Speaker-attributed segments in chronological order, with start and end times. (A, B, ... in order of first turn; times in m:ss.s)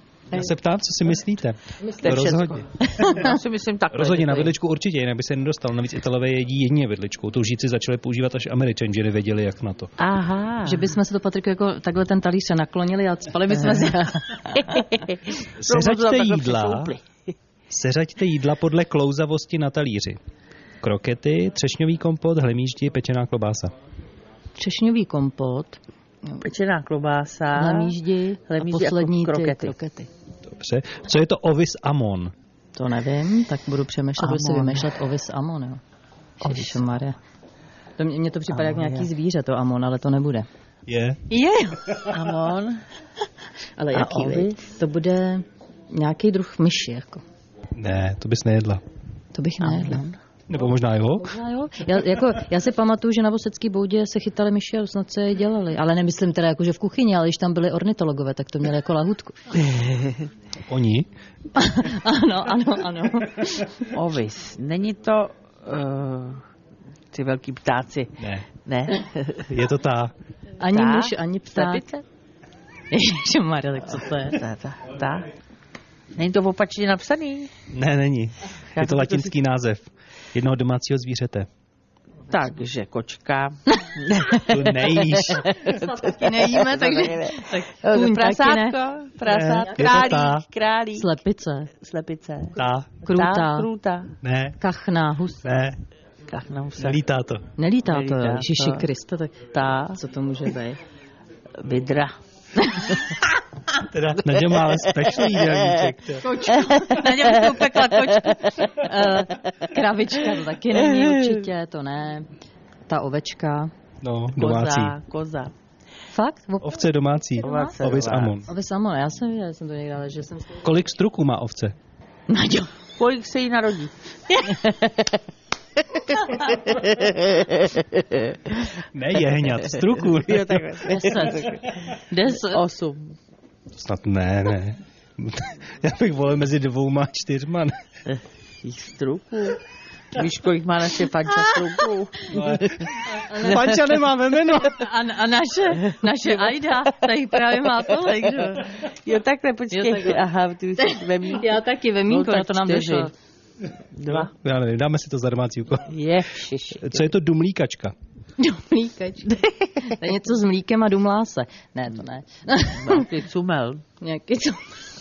0:00.3-0:03.2 A
0:01.8-0:02.3 B
0:02.0-0:04.5 C
0:03.9-0:09.9 A
0:10.0-0:10.9 C
0:10.6-0:14.8 B
0:13.6-0:17.3 C
0:15.6-0:16.9 A
0:17.7-0:20.2 A
0:20.8-0:23.7 A
0:24.6-0:26.4 B
0:26.4-0:27.9 C
0:27.5-0:30.1 B
0:28.5-0:29.7 C
0:30.5-0:32.3 A
0:32.8-0:35.8 B
0:34.2-0:34.9 C
0:36.4-0:37.2 B
0:36.4-0:36.8 C
0:38.0-0:40.5 B
0:38.5-0:39.1 C
0:40.9-0:41.2 A
0:41.3-0:42.0 B
0:42.1-0:42.8 C
0:43.8-0:47.2 B
0:43.9-0:44.6 C
0:47.8-0:48.8 A
0:49.3-0:50.1 B
0:49.6-0:50.1 C
0:50.5-0:51.3 A
0:51.2-0:59.5 B
0:59.5-1:00.3 C
1:00.7-1:01.1 A
1:01.5-1:03.8 B
1:03.9-1:06.4 C
1:07.1-1:09.5 C
1:08.2-1:08.4 A
1:09.5-1:10.1 A
1:10.6-1:11.8 B
1:10.7-1:12.0 C
1:12.9-1:14.4 B
1:14.3-1:15.3 C
1:16.2-1:17.5 C
1:17.7-1:21.5 A
1:18.7-1:19.3 C
1:22.3-1:31.1 C
1:24.3-1:25.5 A
1:25.5-1:28.8 B
1:29.2-1:30.4 A
1:29.7-1:30.1 B
1:31.0-1:31.7 B
1:31.8-1:32.6 C
1:32.6-1:32.9 A
1:33.0-1:33.7 B
1:33.1-1:34.1 C
1:34.2-1:34.6 A
1:34.6-1:35.5 B
1:35.4-1:35.8 A
1:36.3-1:37.0 C
1:36.8-1:37.4 A
1:37.6-1:39.4 B
1:37.9-1:38.8 C
1:39.5-1:40.0 C
1:39.9-1:40.8 B
1:41.6-1:42.1 C
1:42.6-1:43.0 B
1:42.7-1:43.1 C
1:43.8-1:46.2 A
1:44.3-1:44.9 C
1:46.2-1:52.3 B
1:46.4-1:48.9 C
1:50.9-1:51.4 C
1:52.9-1:53.7 B
1:54.0-1:54.9 A
1:54.4-1:55.5 C
1:56.1-1:56.7 B
1:56.6-1:58.5 A
1:57.4-1:57.7 B
1:57.4-1:58.4 C
1:58.4-2:00.6 B
2:00.6-2:01.7 A
2:02.3-2:02.7 B
2:03.0-2:05.2 C
2:06.2-2:08.7 C
2:08.9-2:10.8 A
2:09.6-2:11.8 C
2:10.9-2:12.6 B
2:12.4-2:13.1 C
2:13.7-2:17.7 A
2:18.1-2:19.6 C
2:20.1-2:22.9 C
2:22.3-2:24.8 A
2:23.2-2:23.8 B
2:23.4-2:23.8 C
2:24.6-2:28.8 B
2:28.8-2:31.5 C
2:29.7-2:30.2 B
2:30.8-2:33.1 B
2:32.1-2:33.1 C
2:33.9-2:34.3 C
2:34.0-2:35.9 A
2:35.9-2:37.0 C
2:36.8-2:37.9 A
2:38.4-2:43.1 B
2:42.7-2:43.8 C
2:44.0-2:44.7 B